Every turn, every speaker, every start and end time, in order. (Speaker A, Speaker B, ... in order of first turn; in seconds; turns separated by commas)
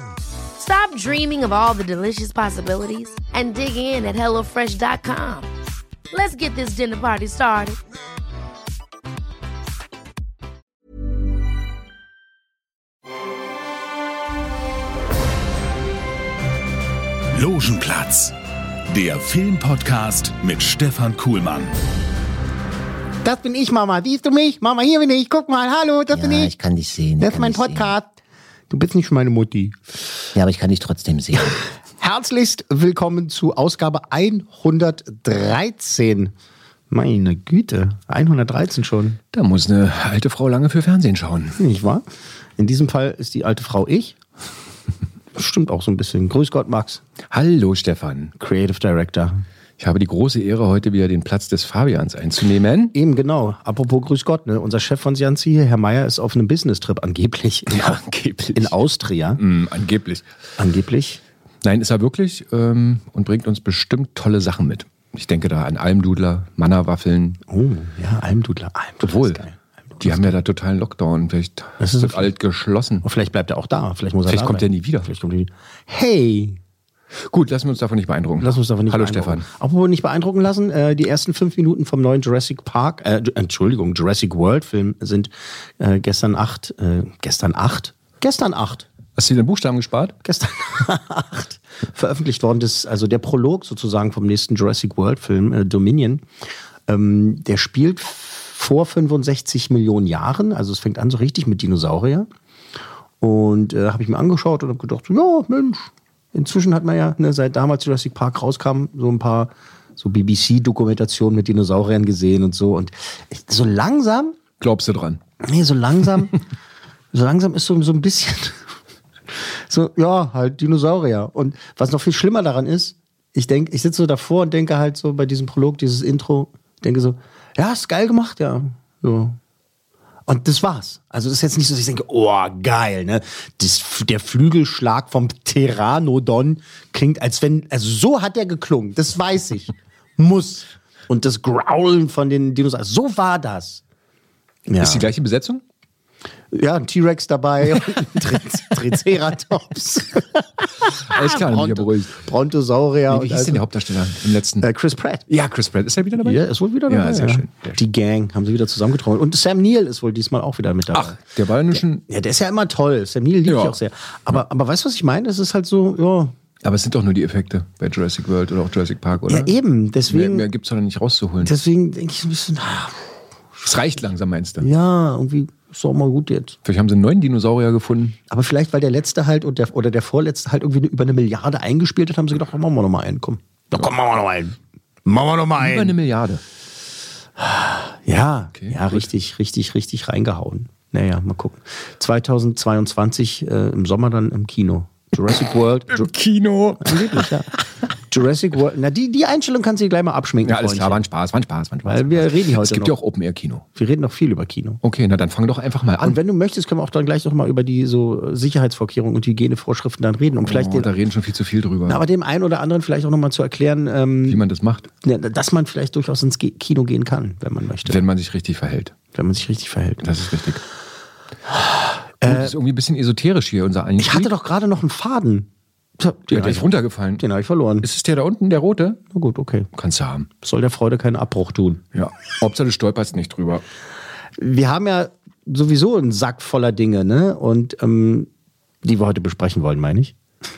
Speaker A: 0.6-5.5, Speaker A: 6.1-7.8, Speaker B: 17.3-18.3, Speaker B: 18.9-21.7, Speaker C: 23.2-26.6, Speaker D: 26.1-27.9, Speaker C: 27.2-28.1, Speaker C: 28.7-29.8, Speaker D: 30.4-31.6, Speaker C: 31.5-36.3, Speaker C: 36.9-39.2, Speaker E: 39.3-41.6, Speaker C: 41.6-42.0, Speaker C: 42.6-44.2, Speaker C: 45.4-47.0, Speaker E: 47.3-48.3, Speaker C: 48.4-49.4, Speaker E: 49.8-52.9, Speaker C: 52.9-57.9, Speaker E: 57.7-58.7, Speaker C: 58.5-59.4, Speaker E: 59.4-60.2, Speaker C: 60.6-61.2, Speaker E: 61.6-67.4, Speaker C: 67.5-70.3, Speaker E: 69.0-69.4, Speaker E: 70.0-73.0, Speaker C: 71.8-72.3, Speaker C: 73.0-76.6, Speaker E: 74.3-75.1, Speaker E: 77.3-79.5, Speaker C: 78.4-88.9, Speaker E: 89.2-90.2, Speaker C: 90.2-96.2, Speaker C: 96.9-102.3, Speaker C: 103.2-114.4, Speaker E: 114.6-115.2, Speaker C: 115.4-116.3, Speaker C: 117.1-118.7, Speaker C: 119.3-129.4, Speaker C: 130.3-143.8, Speaker C: 144.7-145.1, Speaker E: 144.8-145.6, Speaker C: 146.5-153.6, Speaker E: 151.1-152.2, Speaker E: 153.1-154.7, Speaker C: 154.6-155.3, Speaker E: 155.3-157.8, Speaker C: 156.2-161.2, Speaker E: 160.9-162.0, Speaker C: 162.1-166.3, Speaker E: 163.5-163.8, Speaker E: 166.6-169.5, Speaker C: 169.3-170.5, Speaker E: 170.1-171.5, Speaker C: 171.4-173.0, Speaker E: 173.6-174.7, Speaker C: 174.6-176.6, Speaker E: 176.7-178.2, Speaker C: 178.3-185.9, Speaker E: 185.6-186.4, Speaker C: 187.4-196.1, Speaker E: 188.6-189.1, Speaker E: 195.9-197.3, Speaker C: 196.8-197.5, Speaker C: 198.1-201.0, Speaker E: 200.4-203.7, Speaker C: 201.9-202.9, Speaker C: 203.8-204.8, Speaker E: 204.8-206.2, Speaker C: 206.0-211.0, Speaker E: 210.4-212.0, Speaker C: 211.9-214.4, Speaker E: 214.3-214.9, Speaker C: 215.0-218.0, Speaker E: 217.8-218.9, Speaker C: 219.1-220.1, Speaker E: 220.0-220.6, Speaker C: 221.5-222.5, Speaker E: 222.2-224.3, Speaker C: 224.0-226.7, Speaker E: 226.3-227.2, Speaker C: 227.2-227.9, Speaker E: 227.8-229.0, Speaker C: 229.1-229.7, Speaker E: 229.8-230.3, Speaker C: 230.4-231.8, Speaker E: 231.9-233.6, Speaker C: 234.4-238.3, Speaker C: 238.8-240.2